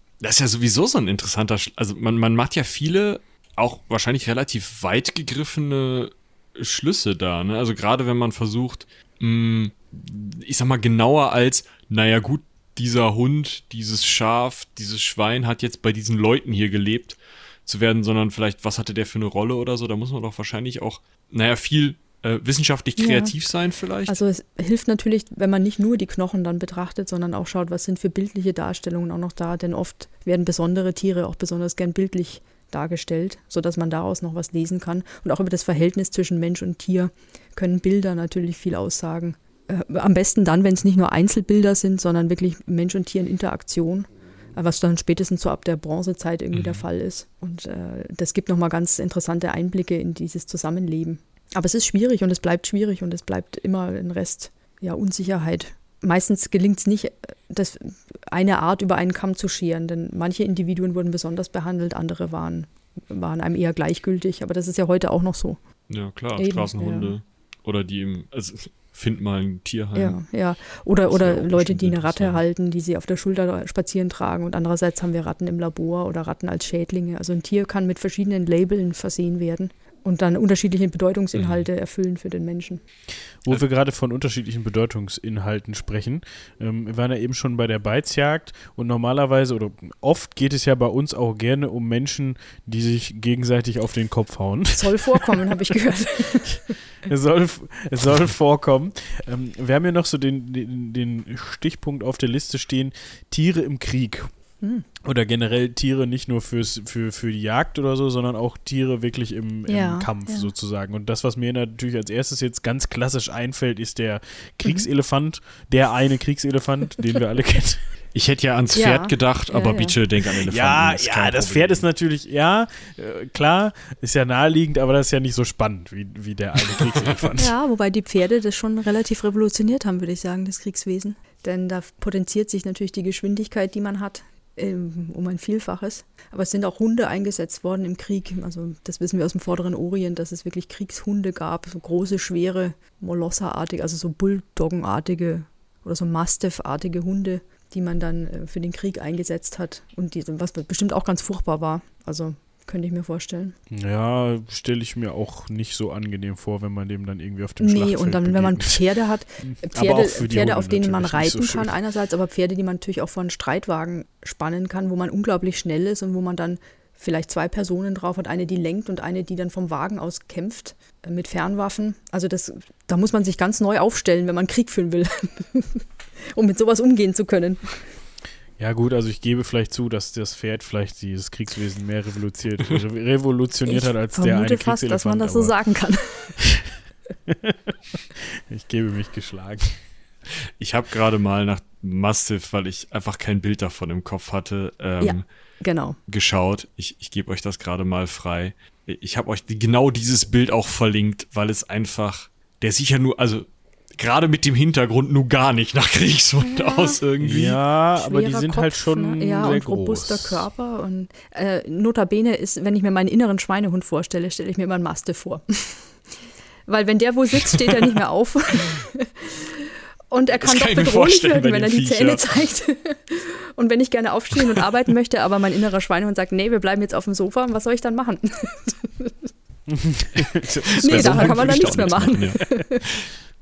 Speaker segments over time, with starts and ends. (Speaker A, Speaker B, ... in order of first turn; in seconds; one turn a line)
Speaker A: 0.2-24.1
Speaker B: 23.0-23.3
Speaker B: 24.1-65.6
Speaker A: 46.5-46.8
Speaker A: 65.9-70.2
Speaker B: 66.3-67.1
Speaker B: 69.9-82.8
Speaker A: 71.1-72.4
Speaker A: 81.3-81.6
Speaker C: 83.4-95.3
Speaker B: 94.7-96.7
Speaker C: 97.0-104.3
Speaker C: 105.0-117.8
Speaker B: 109.7-110.5
Speaker A: 118.1-121.8
Speaker B: 118.7-120.0
Speaker C: 120.2-127.5
Speaker B: 127.4-153.5
Speaker C: 153.7-158.8
Speaker B: 157.6-175.8
Speaker C: 159.4-161.8
Speaker B: 176.3-177.7
Speaker C: 178.6-185.5
Speaker B: 183.7-186.4
Speaker C: 186.4-189.8
Speaker A: 190.6-195.2
Speaker B: 195.0-196.0
Speaker A: 196.1-207.6
Speaker B: 206.4-207.0
Speaker C: 207.2-210.5
Speaker B: 208.0-215.9
Speaker B: 216.7-229.1
Speaker A: 220.4-222.2
Speaker C: 229.7-231.9
Speaker A: 230.7-233.1
Speaker B: 230.8-232.8